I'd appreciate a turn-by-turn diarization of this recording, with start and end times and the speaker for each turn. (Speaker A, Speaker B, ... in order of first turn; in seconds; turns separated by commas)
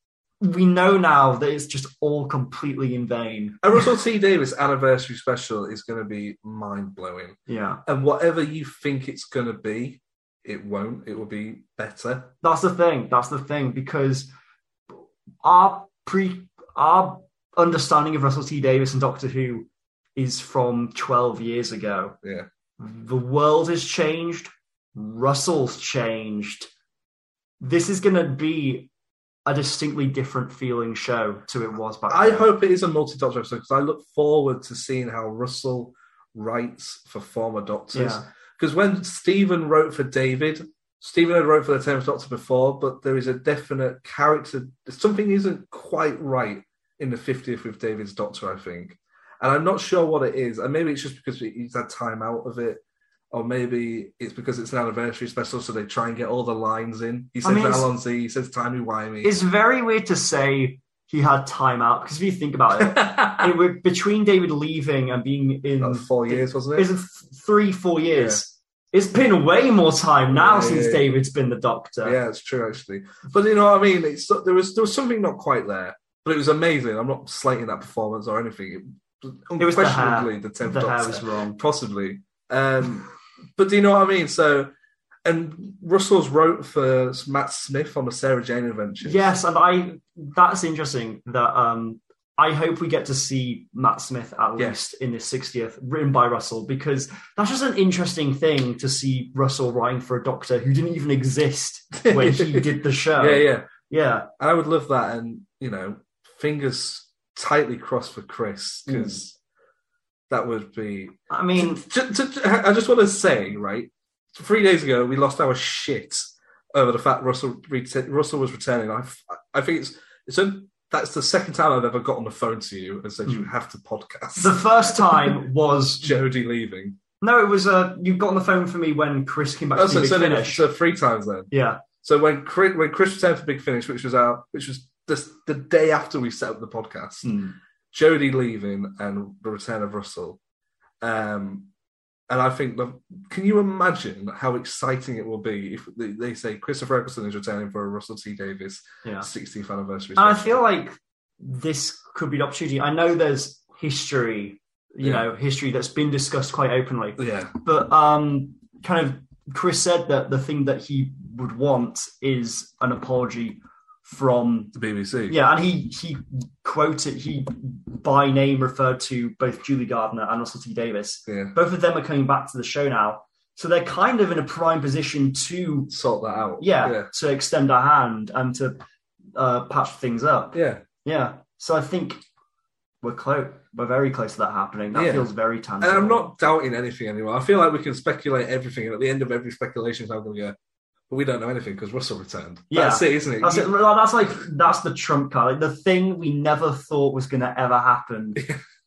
Speaker A: 0.4-3.8, Speaker B: 3.6-12.3, Speaker A: 7.5-7.8, Speaker A: 12.4-14.3, Speaker A: 15.4-22.2, Speaker A: 22.8-26.7, Speaker A: 27.6-28.9, Speaker A: 29.5-32.5, Speaker B: 32.1-59.4, Speaker A: 37.9-38.2, Speaker A: 57.4-57.9, Speaker A: 59.2-72.2, Speaker B: 62.8-63.5, Speaker B: 65.8-66.9, Speaker B: 68.2-68.4, Speaker B: 70.3-71.1, Speaker B: 72.0-84.7, Speaker A: 79.6-81.6, Speaker B: 85.2-89.3, Speaker A: 89.0-104.3, Speaker B: 102.0-103.7, Speaker B: 104.4-109.3, Speaker A: 108.9-109.2, Speaker B: 110.3-125.4, Speaker A: 111.3-111.8, Speaker A: 124.4-126.1, Speaker B: 126.0-127.0, Speaker A: 127.2-130.7, Speaker B: 129.8-137.3, Speaker A: 131.5-131.8, Speaker A: 137.2-137.6, Speaker B: 137.9-140.4, Speaker B: 141.0-141.7, Speaker B: 142.3-150.6, Speaker A: 150.2-164.8, Speaker B: 157.2-157.5, Speaker B: 164.8-165.4, Speaker A: 165.3-175.9, Speaker B: 171.3-171.6, Speaker B: 175.9-177.1, Speaker A: 176.6-178.8, Speaker A: 179.3-182.2, Speaker B: 180.5-180.8, Speaker A: 183.0-186.2, Speaker B: 184.9-185.3, Speaker B: 185.8-190.6, Speaker B: 191.1-193.8, Speaker A: 192.7-198.5